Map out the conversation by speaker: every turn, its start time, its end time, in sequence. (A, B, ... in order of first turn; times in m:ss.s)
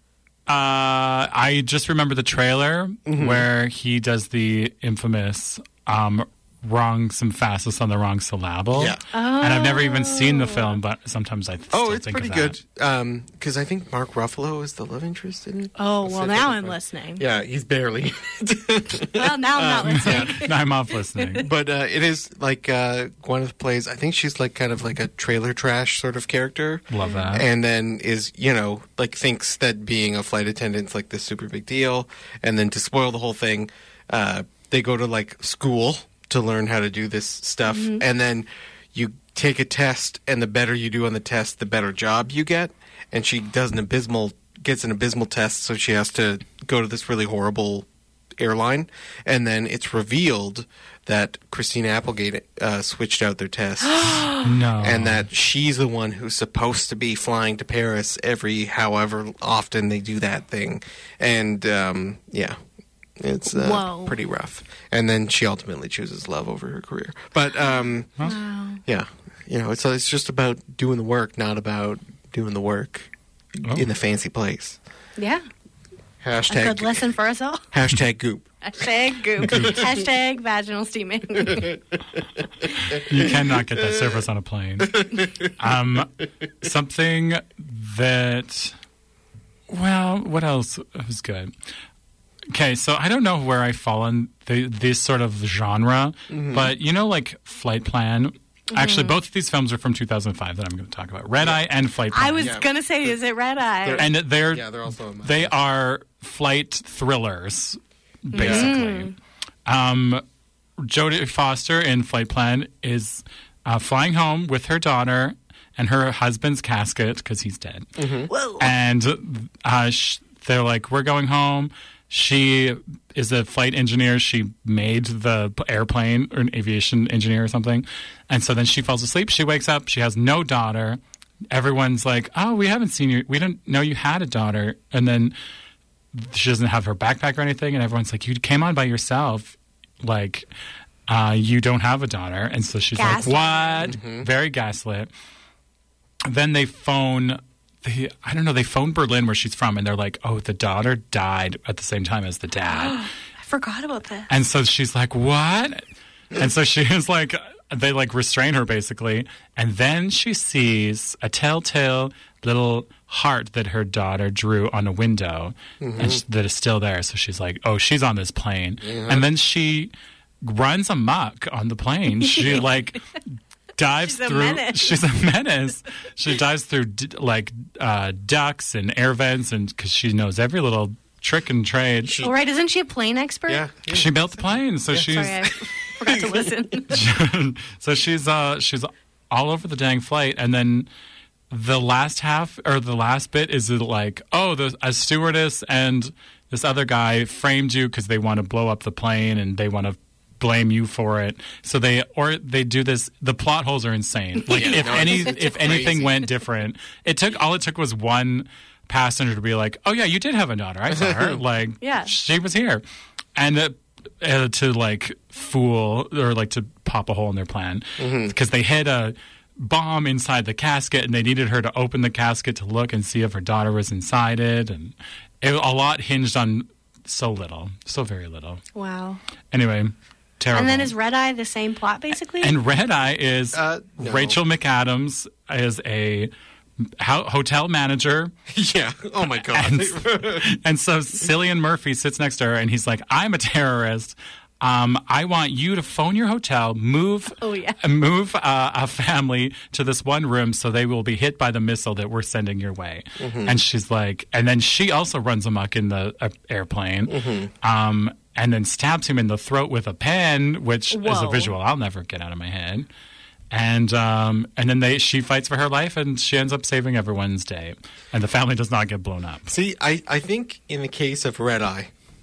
0:00.5-0:12.6 A
0:03.1-0:03.5 B
0:08.8-0:09.0 B
0:09.1-0:10.8 C
0:11.7-0:20.4 B
0:15.8-0:17.2 C
0:19.1-0:20.6 C
0:19.9-0:21.5 A
0:21.1-0:21.5 C
0:21.4-0:54.3 B
0:26.9-0:27.5 A
0:27.0-0:27.4 C
0:37.7-0:38.0 C
0:53.9-0:54.5 C
0:54.3-0:55.3 A
0:54.8-1:02.6 B
1:03.2-1:08.3 B
1:03.5-1:04.2 C
1:08.2-1:08.8 C
1:08.8-1:14.8 B
1:15.2-1:15.4 C
1:16.2-1:17.1 B
1:16.5-1:17.7 C
1:17.7-1:18.5 B
1:18.6-1:21.7 C
1:19.4-1:19.9 B
1:19.5-1:19.8 A
1:21.5-1:21.8 B
1:22.8-1:28.8 A
1:23.0-1:24.1 B
1:24.9-1:25.5 B
1:29.7-1:31.5 A
1:32.5-1:42.6 A
1:36.3-1:36.7 B
1:38.7-1:39.2 C
1:42.1-1:44.1 C
1:42.4-1:43.2 B
1:43.8-1:45.6 B
1:44.0-1:49.1 A
1:48.3-1:49.1 C
1:48.4-1:48.7 B
1:49.7-1:50.2 A
1:50.8-1:58.0 A
1:58.0-1:58.3 B
1:58.3-1:58.7 C
1:58.6-2:11.0 A
2:11.5-2:15.4 A
2:16.1-2:20.5 A
2:21.1-2:25.1 A
2:23.0-2:23.9 C
2:23.1-2:24.3 B
2:26.2-2:33.0 A
2:32.7-2:34.3 C
2:34.3-2:35.8 A
2:36.4-2:53.1 A
2:45.8-2:46.2 B
2:48.8-2:49.3 B
2:52.2-2:52.7 C
2:53.8-3:02.2 A
2:54.0-2:55.0 C
3:02.1-3:02.3 B
3:02.2-3:03.6 C
3:03.5-3:05.5 B
3:03.9-3:05.5 A
3:05.1-3:07.0 C
3:06.9-3:10.9 A
3:11.5-3:32.8 A
3:24.5-3:26.1 B
3:24.5-3:25.1 C
3:30.9-3:31.4 B
3:31.8-3:32.1 C
3:33.4-3:48.6 A
3:38.0-3:38.3 B
3:48.8-3:49.2 C
3:49.5-3:50.9 A
3:50.5-3:52.6 C
3:52.4-3:56.3 A
3:53.5-3:54.4 B
3:57.0-3:58.3 A
3:58.5-4:00.6 B
3:59.4-4:22.9 A
4:07.4-4:07.8 C
4:13.2-4:13.6 B
4:17.1-4:17.5 B
4:20.9-4:21.5 C
4:23.5-4:29.5 A
4:29.5-4:31.9 B